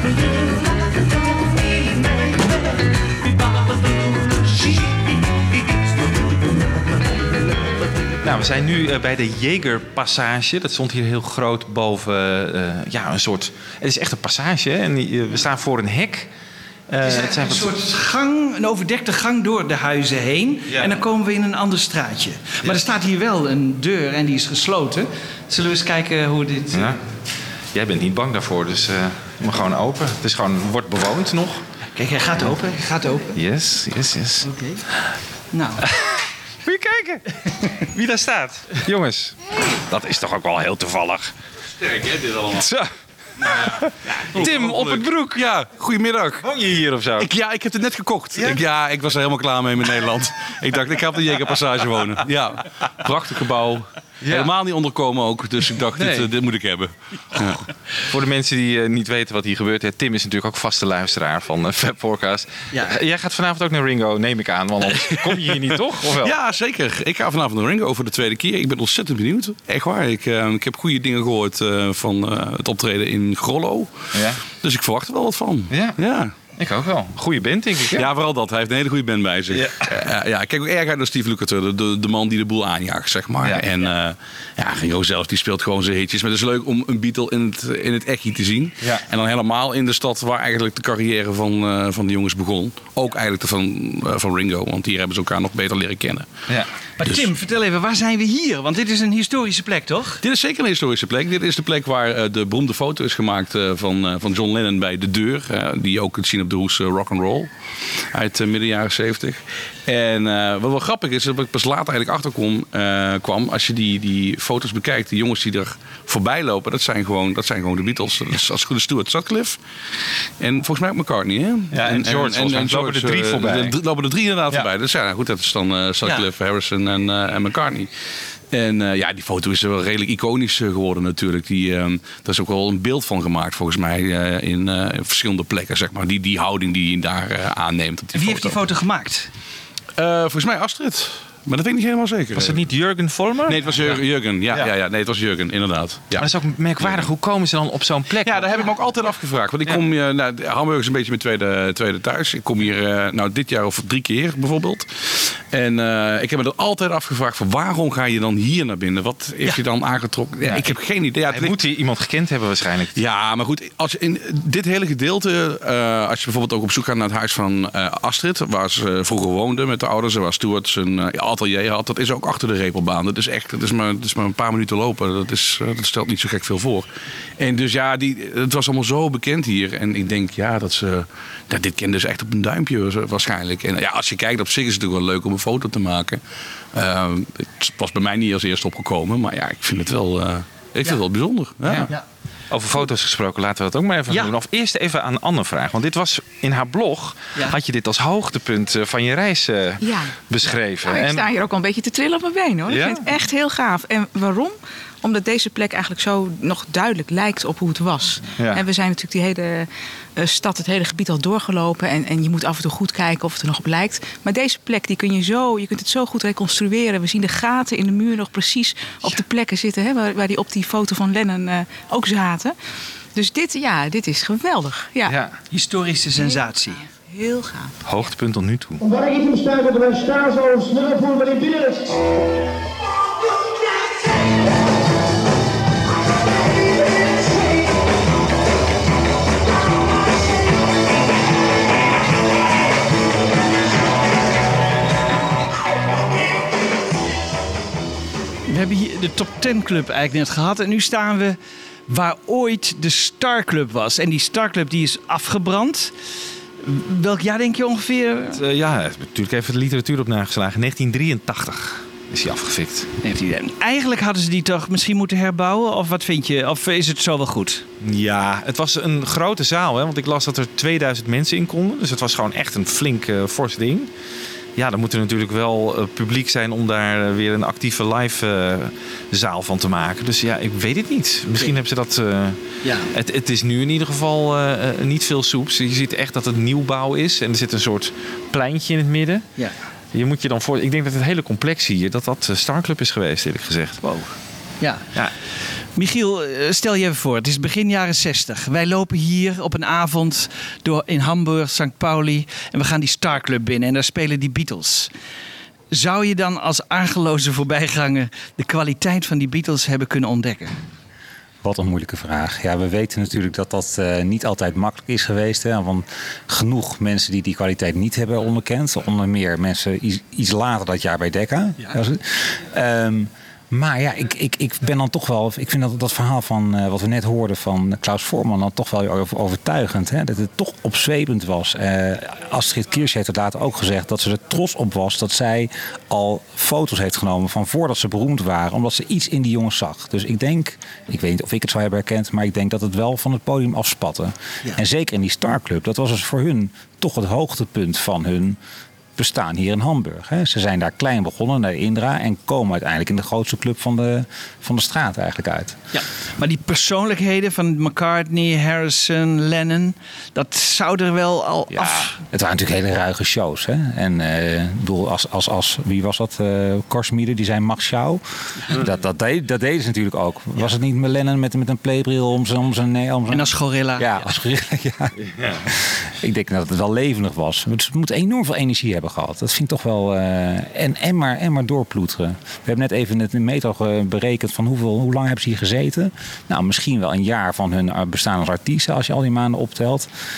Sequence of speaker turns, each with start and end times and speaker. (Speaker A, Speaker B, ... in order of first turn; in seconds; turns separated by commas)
Speaker A: 8.2-16.3, Speaker A: 16.9-17.7, Speaker B: 17.0-26.9, Speaker A: 20.7-21.0, Speaker A: 26.7-27.0, Speaker A: 27.7-31.6, Speaker B: 31.9-33.3, Speaker A: 33.3-34.5, Speaker B: 34.4-34.8, Speaker B: 35.5-35.8, Speaker A: 35.9-41.3, Speaker C: 41.9-42.6, Speaker A: 42.5-42.9, Speaker A: 43.6-45.5, Speaker B: 44.1-44.5, Speaker C: 44.4-46.5, Speaker A: 46.4-47.3, Speaker C: 47.2-57.6, Speaker A: 48.3-48.6, Speaker A: 54.2-54.5, Speaker A: 55.9-56.3, Speaker A: 58.1-66.3, Speaker B: 62.7-63.0, Speaker C: 66.2-76.3, Speaker A: 74.1-74.4, Speaker A: 75.7-76.0, Speaker A: 76.6-78.1, Speaker C: 77.9-96.3, Speaker A: 79.5-80.0, Speaker B: 97.0-100.2, Speaker C: 100.2-107.5, Speaker C: 108.1-119.6, Speaker C: 120.4-127.9, Speaker A: 121.7-123.8, Speaker C: 128.5-138.6, Speaker B: 138.1-139.3, Speaker C: 140.0-142.7, Speaker A: 142.3-144.0, Speaker C: 143.4-147.1, Speaker A: 146.1-148.5, Speaker C: 148.2-161.6, Speaker B: 160.4-160.7, Speaker A: 161.3-162.9, Speaker C: 162.9-176.9, Speaker C: 177.4-186.2, Speaker C: 186.7-191.9, Speaker A: 192.5-201.3, Speaker D: 199.8-200.2, Speaker D: 200.8-222.5, Speaker A: 202.7-203.0, Speaker A: 208.4-208.6, Speaker D: 223.1-225.1, Speaker A: 225.1-225.3, Speaker B: 225.5-226.8, Speaker D: 226.2-228.0, Speaker A: 227.8-228.8, Speaker E: 228.8-231.9, Speaker B: 248.5-255.9, Speaker B: 256.6-258.4, Speaker A: 258.3-262.9, Speaker B: 263.0-267.6, Speaker A: 267.8-273.9, Speaker A: 274.6-282.4, Speaker B: 282.6-282.9, Speaker A: 282.9-289.2, Speaker A: 289.9-293.8, Speaker B: 293.8-294.9, Speaker B: 295.7-304.9, Speaker B: 305.7-310.5, Speaker F: 311.4-348.4, Speaker F: 348.9-355.6, Speaker B: 355.7-361.9, Speaker F: 361.6-374.9, Speaker B: 373.1-373.9, Speaker A: 375.1-375.4, Speaker F: 375.5-389.9